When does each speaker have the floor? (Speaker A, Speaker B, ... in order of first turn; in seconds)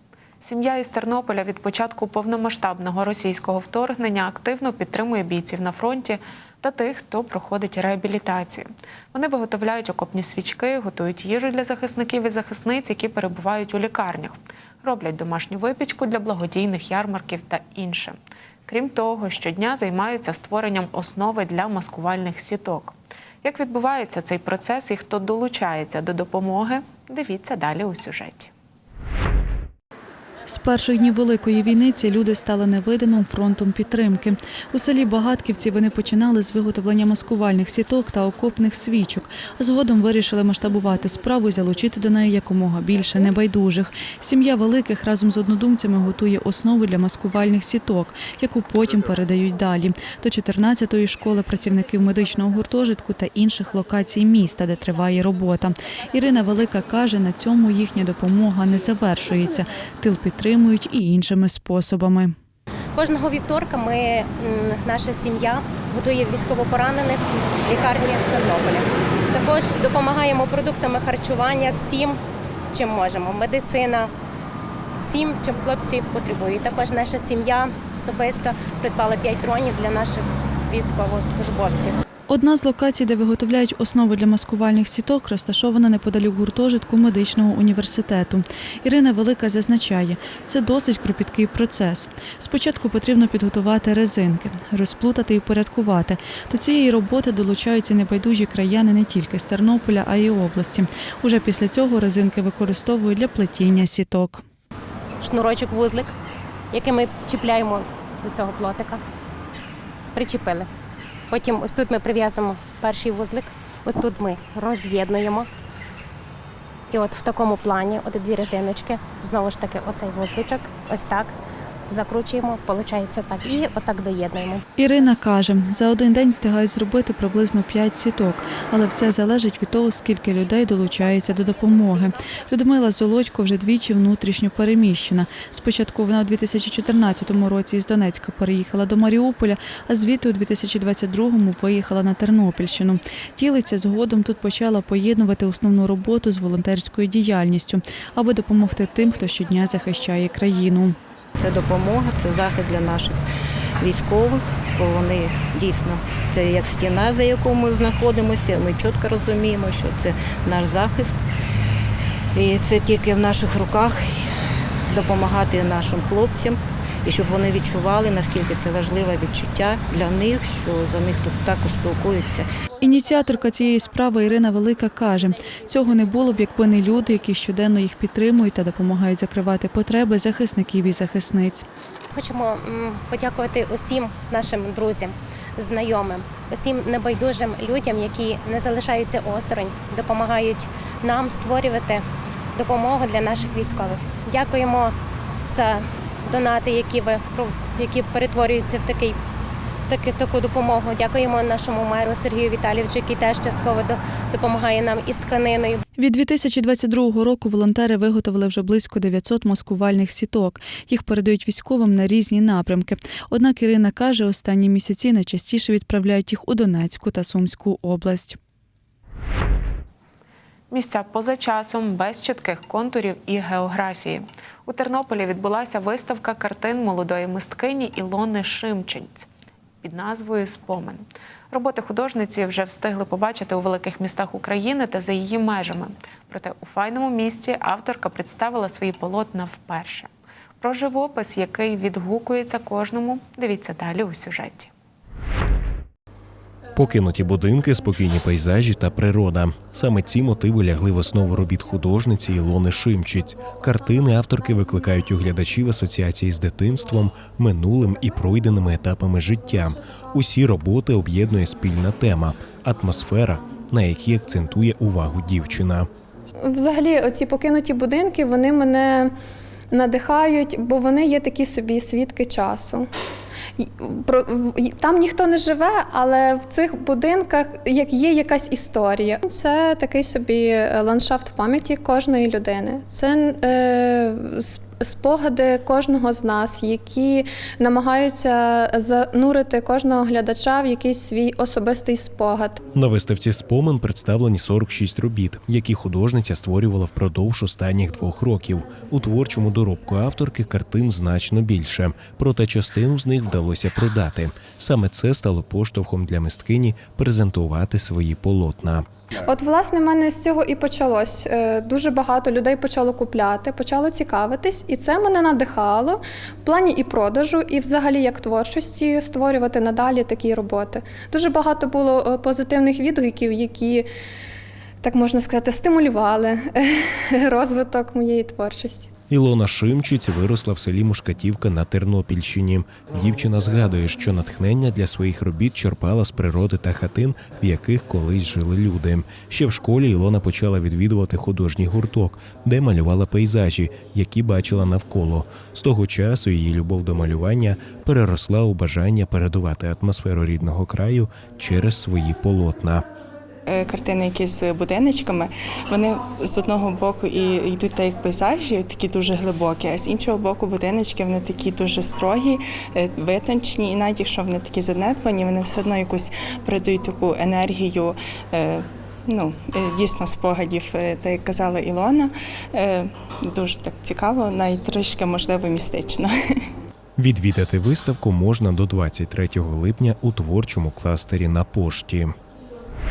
Speaker A: 0.4-18.1, 18.7-28.5, 220.7-229.3, 229.8-244.7
Speaker B: 30.5-62.3, 82.3-104.4, 124.8-150.9, 172.8-181.6, 206.0-218.4
Speaker C: 62.9-72.2, 72.7-74.1, 75.0-82.0, 105.2-106.1, 106.7-109.0, 110.1-110.7, 111.3-115.5, 116.9-121.3, 121.9-124.6, 182.1-192.0, 192.5-194.9, 195.5-199.2, 199.9-205.8
Speaker D: 151.4-153.2, 153.8-161.2, 162.3-164.2, 164.9-172.5
Speaker E: 246.7-265.9, 292.7-308.9, 329.1-352.8, 377.0-382.1
Speaker F: 266.4-269.1, 269.7-272.9, 273.6-292.6, 309.2-323.9, 324.8-328.9
Speaker G: 353.4-376.1